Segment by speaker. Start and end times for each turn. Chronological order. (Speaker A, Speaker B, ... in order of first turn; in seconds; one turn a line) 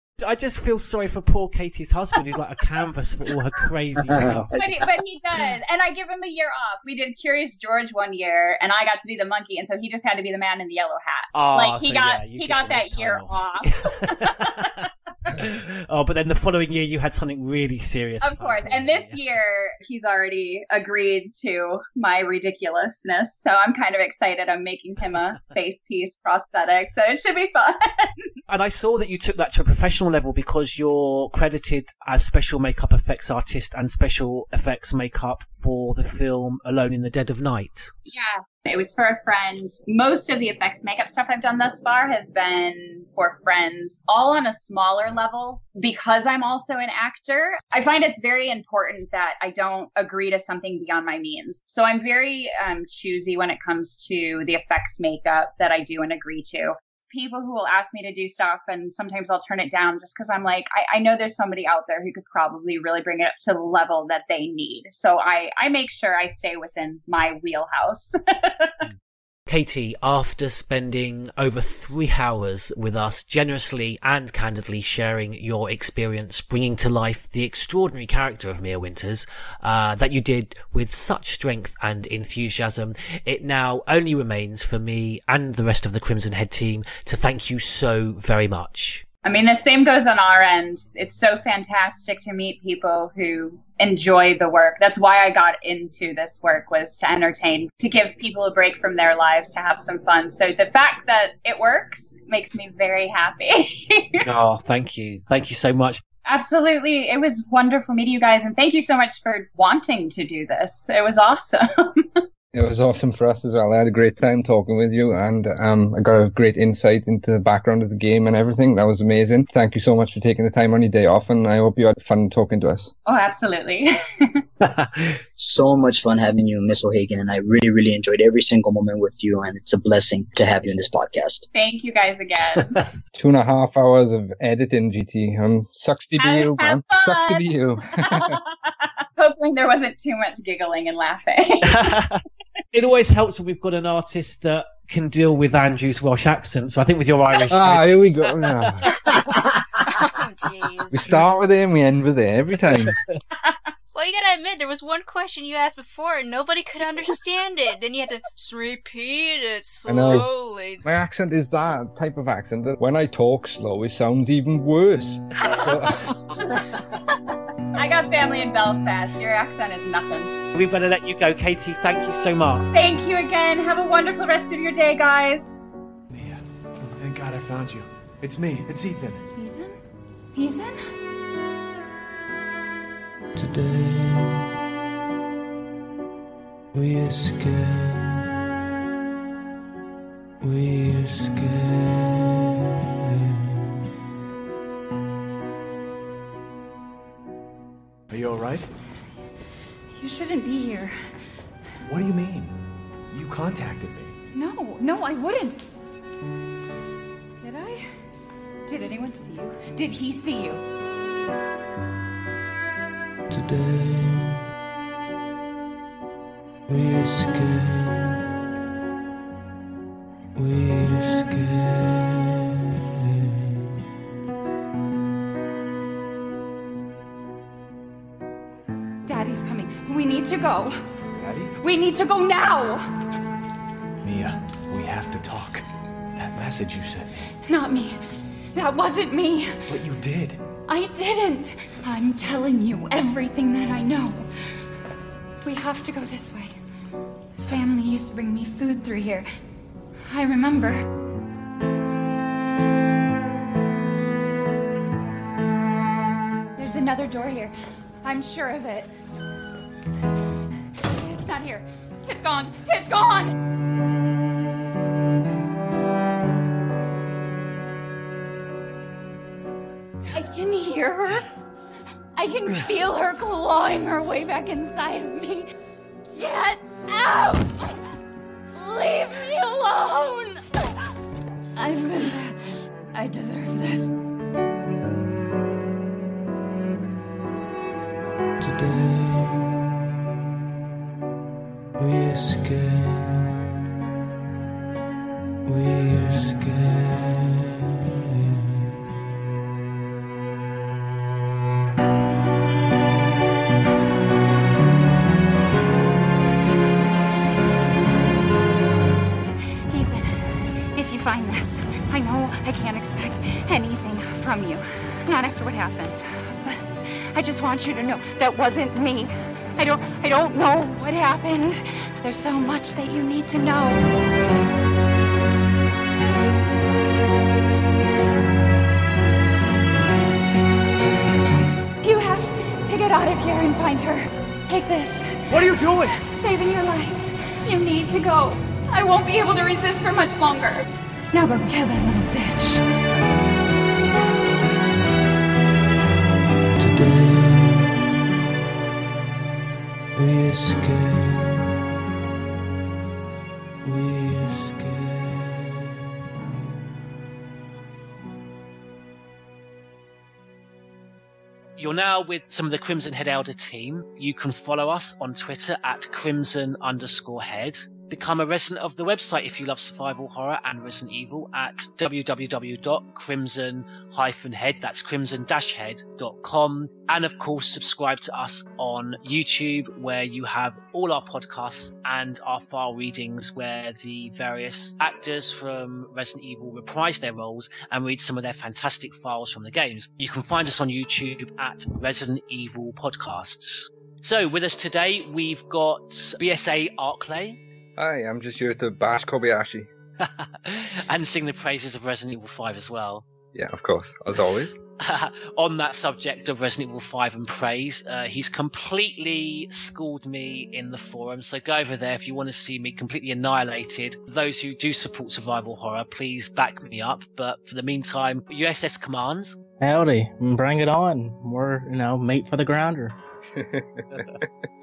Speaker A: 0.2-4.6
Speaker B: 4.1-4.6
Speaker C: 4.5-14.7
Speaker A: 11.3-14.7
Speaker A: 15.3-19.2
Speaker C: 18.2-28.2
Speaker A: 28.5-38.0
Speaker C: 38.1-68.7
Speaker A: 68.8-89.0
Speaker C: 89.2-104.2
Speaker A: 104.2-106.0
Speaker C: 106.3-112.2
Speaker D: 112.5-122.9
Speaker C: 123.1-124.4
Speaker B: 125.4-131.5
Speaker C: 131.5-132.8
Speaker D: 133.1-138.4
Speaker C: 136.2-137.5
Speaker C: 138.1-138.4
Speaker C: 139.2-141.9
Speaker A: 141.7-142.2
Speaker A: 142.7-148.7
Speaker D: 147.5-149.0
Speaker E: 149.9-151.1
Speaker D: 150.9-153.0
Speaker E: 153.9-160.8
Speaker D: 159.8-160.3
Speaker D: 160.8-166.1
Speaker C: 167.8-170.3
Speaker A: 170.5-172.7
Speaker C: 172.7-175.4
Speaker F: 176.1-179.3
Speaker G: 179.3-179.8
Speaker G: 180.3-180.9
Speaker H: 183.4-184.5
Speaker H: 186.7-188.3
Speaker H: 190.4-193.8
Speaker F: 198.1-198.7
Speaker G: 200.0-201.0
Speaker F: 201.8-204.2
Speaker G: 204.3-205.6
Speaker G: 207.4-207.9
Speaker G: 208.7-210.6
Speaker H: 213.3-214.4
Speaker H: 216.7-218.2
Speaker H: 220.3-223.6
Speaker G: 229.1-230.8
Speaker F: 231.1-231.6
Speaker G: 231.6-232.9
Speaker F: 234.0-235.7
Speaker F: 236.2-237.3
Speaker G: 237.5-238.0
Speaker G: 238.6-239.6
Speaker F: 239.7-240.4
Speaker G: 240.7-244.3
Speaker G: 245.4-246.5
Speaker G: 247.4-249.3
Speaker G: 250.1-250.8
Speaker G: 256.6-258.9
Speaker G: 260.8-263.4
Speaker G: 270.1-271.3
Speaker G: 272.2-275.4
Speaker G: 276.1-277.8
Speaker G: 278.6-280.4
Speaker G: 281.6-282.4
Speaker G: 282.9-283.9
Speaker H: 288.4-289.6
Speaker H: 291.8-293.3
Speaker H: 295.4-298.7
Speaker G: 309.7-323.9
Speaker G: 331.8-342.6
Speaker F: 335.3-336.0
Speaker H: 346.6-347.8
Speaker H: 350.0-351.5
Speaker H: 353.6-356.5
Speaker A: 361.6-397.4
Speaker D: 397.8-399.7
Speaker A: 400.0-403.1
Speaker D: 403.3-404.6
Speaker A: 404.8-419.4
Speaker I: 419.6-422.9
Speaker D: 423.3-424.3